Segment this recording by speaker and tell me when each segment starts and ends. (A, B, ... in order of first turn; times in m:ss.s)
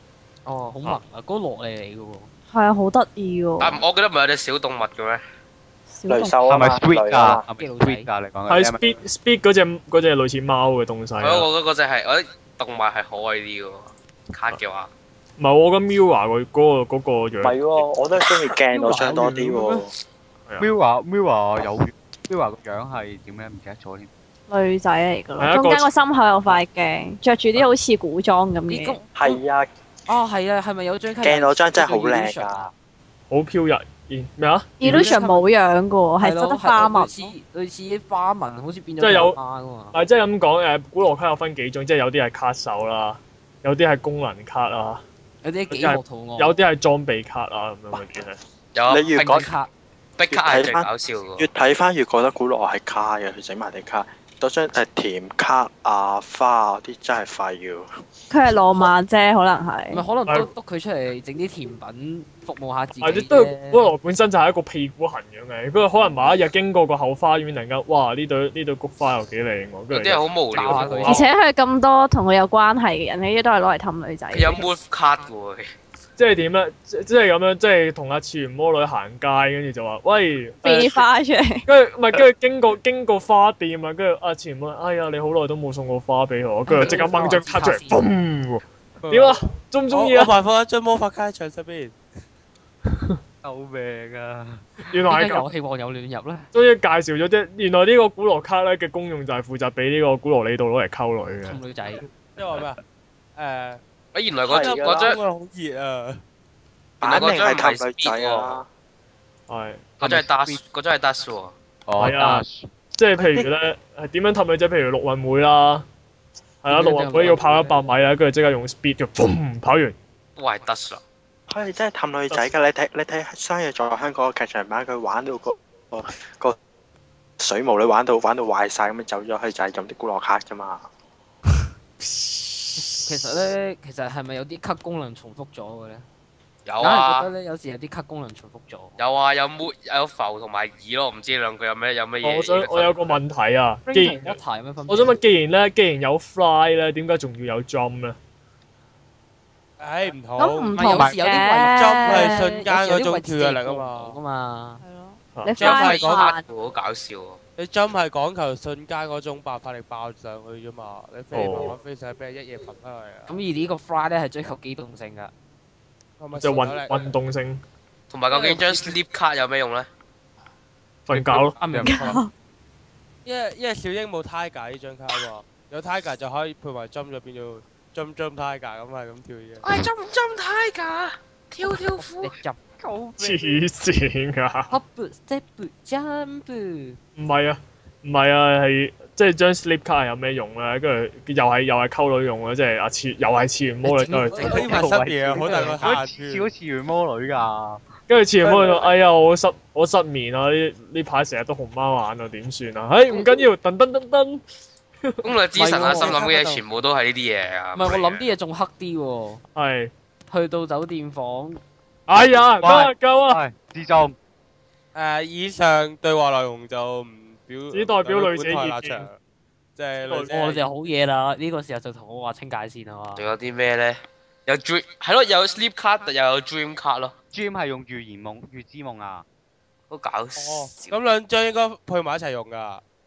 0:00.5-0:02.3 A
0:02.5-0:03.8 B
0:03.6-0:05.2 C
0:05.9-0:06.4 B
0:06.1-0:07.4 D
0:06.4-0:08.8 E
0:07.6-0:08.1 A
0:08.5-0:11.5 F
0:11.2-0:14.9 C
0:15.4-0:17.6 F
0:17.4-0:19.9 D
0:18.7-0:19.9 A
0:20.6-0:24.1 E
0:24.5-0:29.0 B
0:25.4-0:25.9 F
0:28.7-0:29.3 A
0:29.1-0:29.7 D
0:30.1-0:32.7 A
0:31.2-0:32.7 D
0:33.3-0:35.1 F
0:34.8-0:37.3 B
0:34.9-0:35.5 A
0:36.2-0:39.9 A
0:39.0-0:39.4 F
0:39.9-0:45.0 F
0:45.4-0:46.6 A
0:45.7-0:48.4 F
0:48.8-0:49.5 C
0:48.9-0:49.5 D
0:49.2-0:49.7 A
0:50.2-0:51.5 C
0:50.3-0:57.9 D
0:58.3-1:00.0 B
0:59.9-1:03.9 A
1:03.0-1:11.2 F
1:09.9-1:11.2 C
1:10.5-1:11.2 A
1:11.0-1:14.7 B
1:14.3-1:15.7 C
1:16.2-1:21.1 F
1:20.6-1:21.6 B
1:21.7-1:30.3 F
1:26.7-1:28.0 A
1:29.0-1:32.0 G
1:33.4-1:34.7 E
1:34.9-1:35.5 F
1:35.1-1:36.5 A
1:36.5-1:41.6 F
1:41.4-1:42.0 A
1:42.4-1:42.8 G
1:43.4-1:43.8 G
1:44.1-1:45.2 C
1:44.5-1:45.2 D
1:44.5-1:46.2 G
1:47.0-1:48.7 D
1:47.0-1:48.6 C
1:49.5-1:50.1 F
1:50.0-1:50.6 E
1:50.0-1:51.6 C
1:51.9-1:52.7 E
1:52.0-1:52.4 F
1:53.0-1:55.8 F
1:53.2-1:53.5 D
1:56.6-2:00.0 F
1:56.7-1:57.8 A
2:00.4-2:01.0 C
2:01.5-2:06.6 D
2:07.4-2:10.8 D
2:12.0-2:13.3 F
2:12.9-2:16.0 A
2:16.7-2:17.3 C
2:16.8-2:19.0 A
2:19.0-2:23.2 C
2:22.2-2:28.2 F
2:23.9-2:25.2 A
2:29.8-2:31.0 G
2:30.4-2:32.4 B
2:30.7-2:34.8 A
2:31.7-2:34.2 G
2:34.8-2:36.5 B
2:35.6-2:36.3 G
2:35.6-2:37.4 C
2:37.6-2:43.4 G
2:41.3-2:41.8 F
2:43.3-2:45.3 A
2:46.2-2:47.0 G
2:46.4-2:47.6 F
2:48.1-2:49.9 C
2:48.3-2:48.9 G
2:51.1-2:51.6 F
2:51.1-2:52.2 A
2:51.7-2:52.0 E
2:51.9-2:52.3 B
2:53.2-2:59.6 G
2:59.6-3:02.4 C
3:01.9-3:02.9 A
3:02.8-3:03.4 E
3:03.2-3:04.7 F
3:04.7-3:07.0 A
3:07.2-3:14.8 F
3:13.8-3:15.9 A
3:14.3-3:14.8 C
3:14.3-3:16.5 G
3:14.6-3:17.8 E
3:18.1-3:24.4 F
3:25.0-3:25.3 F
3:25.2-3:28.3 C
3:25.6-3:26.6 A
3:25.8-3:26.1 G
3:27.8-3:29.4 A
3:29.6-3:29.9 F
3:30.3-3:31.6 A
3:32.1-3:33.4 F
3:32.6-3:34.2 E
3:34.9-3:39.2 G
3:37.7-3:39.1 F
3:39.8-3:40.6 G
3:40.1-3:40.3 F
3:40.3-3:43.3 A
3:43.2-3:47.1 C
3:47.3-3:49.3 E
3:49.9-3:51.0 C
3:50.4-3:52.8 G